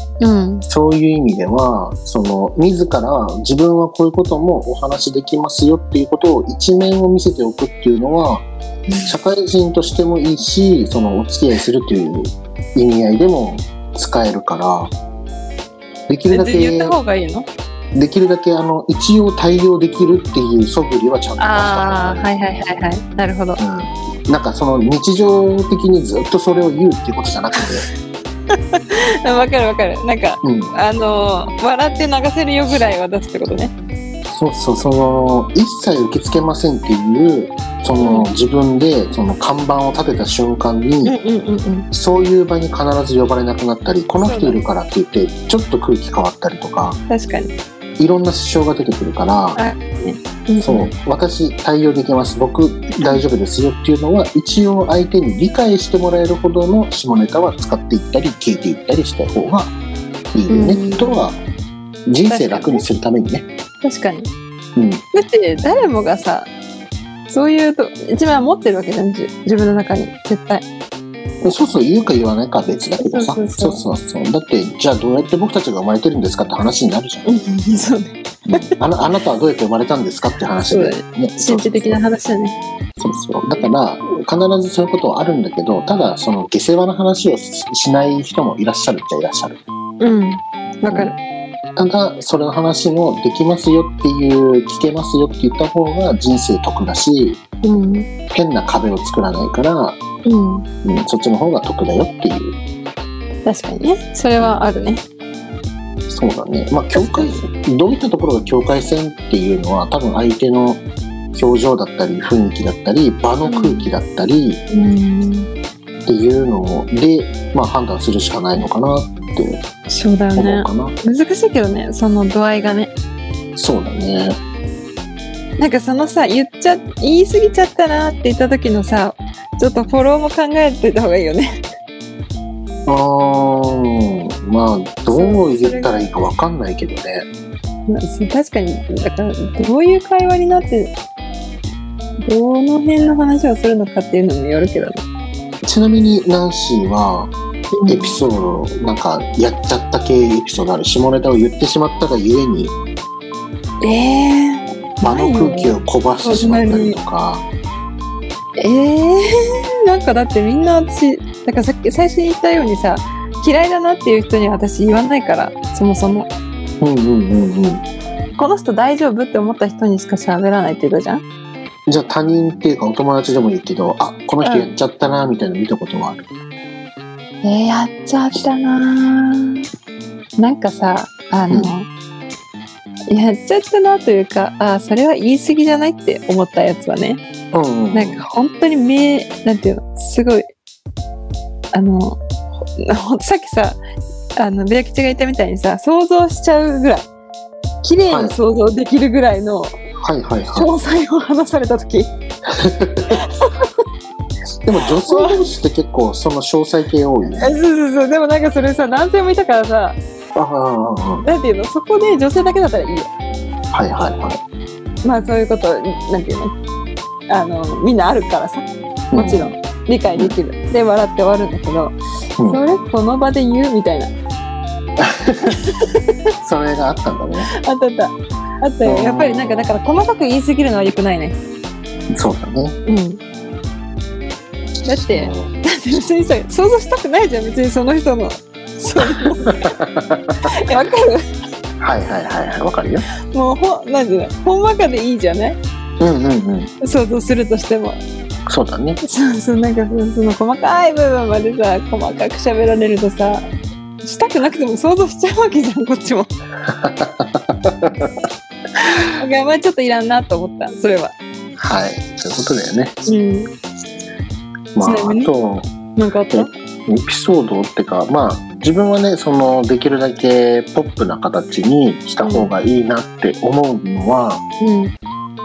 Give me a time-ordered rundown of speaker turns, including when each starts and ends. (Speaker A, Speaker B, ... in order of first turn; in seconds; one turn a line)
Speaker A: 0.2-0.7
Speaker B: 0.7-8.4
Speaker B: 9.1-14.9
Speaker B: 16.1-17.0
Speaker A: 16.3-17.5
Speaker B: 17.9-22.4
Speaker A: 21.4-23.6
Speaker B: 23.6-27.9
Speaker A: 28.7-33.7
Speaker B: 30.4-30.7
Speaker B: 34.3-41.1
Speaker A: 38.0-38.3
Speaker A: 41.0-41.9
Speaker B: 41.9-47.0
Speaker A: 44.2-44.6
Speaker A: 47.1-47.5
Speaker B: 48.0-49.6
Speaker A: 49.5-50.9
Speaker B: 50.6-59.7
Speaker B: 60.3-61.4
Speaker A: 60.5-61.2
Speaker B: 62.1-63.5
Speaker A: 62.3-62.8
Speaker A: 63.8-64.3
Speaker B: 64.8-65.0
Speaker A: 65.1-66.5
Speaker A: 67.3-70.7
Speaker B: 71.4-77.3
Speaker A: 73.0-73.8
Speaker A: 77.2-78.7
Speaker B: 78.5-82.0
Speaker A: 80.6-82.6
Speaker B: 83.0-89.6
Speaker A: 90.0-91.2
Speaker B: 90.9-91.1
Speaker B: 91.8-97.4
Speaker A: 97.6-98.1
Speaker B: 98.3-100.0
Speaker A: 100.2-100.7
Speaker B: 100.8-102.6
Speaker A: 103.5-105.0
Speaker B: 106.1-114.6
Speaker A: 106.9-107.4
Speaker A: 113.5-113.9
Speaker A: 114.7-115.5
Speaker B: 116.0-119.6
Speaker A: 119.9-122.9
Speaker B: 120.3-120.9
Speaker B: 123.5-124.4
Speaker A: 125.6-131.5
Speaker B: 132.8-137.3
Speaker A: 135.1-136.1
Speaker A: 137.9-140.9
Speaker A: 142.2-145.0
Speaker B: 145.6-147.3
Speaker A: 147.7-148.2
Speaker B: 147.9-152.7
Speaker A: 153.8-157.0
Speaker B: 155.0-157.4
Speaker A: 158.6-159.3
Speaker A: 159.8-166.3
Speaker B: 166.8-167.8
Speaker A: 168.4-171.2
Speaker B: 171.9-176.3
Speaker A: 174.4-174.7
Speaker A: 177.4-179.6
Speaker A: 180.4-181.9
Speaker A: 183.1-187.2
Speaker B: 187.5-188.2
Speaker A: 187.9-190.5
Speaker A: 191.7-192.2
Speaker A: 192.8-193.8
Speaker A: 194.4-197.0
Speaker A: 197.8-199.8
Speaker B: 198.1-198.3
Speaker B: 200.0-200.7
Speaker A: 200.5-202.1
Speaker B: 202.5-203.2
Speaker A: 203.1-203.7
Speaker B: 204.6-207.5
Speaker A: 204.9-205.4
Speaker A: 207.4-210.0
Speaker B: 210.3-211.2
Speaker A: 211.2-213.1
Speaker B: 213.7-214.4
Speaker A: 215.0-216.5
Speaker A: 217.3-224.1
Speaker B: 219.1-219.5
Speaker B: 222.4-222.6
Speaker B: 225.0-225.7
Speaker A: 225.5-226.1
Speaker B: 226.4-227.5
Speaker A: 227.6-231.3
Speaker B: 228.8-229.7
Speaker B: 232.1-232.8
Speaker A: 232.8-233.2
Speaker A: 234.8-239.8
Speaker B: 235.1-235.5
Speaker B: 239.1-240.5
Speaker A: 240.4-241.2
Speaker B: 241.8-243.1
Speaker A: 243.3-245.6
Speaker B: 246.0-246.7
Speaker A: 246.8-248.0
Speaker B: 248.5-249.0
Speaker A: 249.0-253.5
Speaker A: 254.0-256.3
Speaker B: 256.7-258.1
Speaker A: 259.2-261.1
Speaker B: 261.6-262.9
Speaker A: 263.1-263.5
Speaker B: 264.7-265.7
Speaker A: 264.8-265.3
Speaker A: 265.9-266.5
Speaker B: 266.3-274.4
Speaker A: 272.2-272.5
Speaker A: 274.6-274.9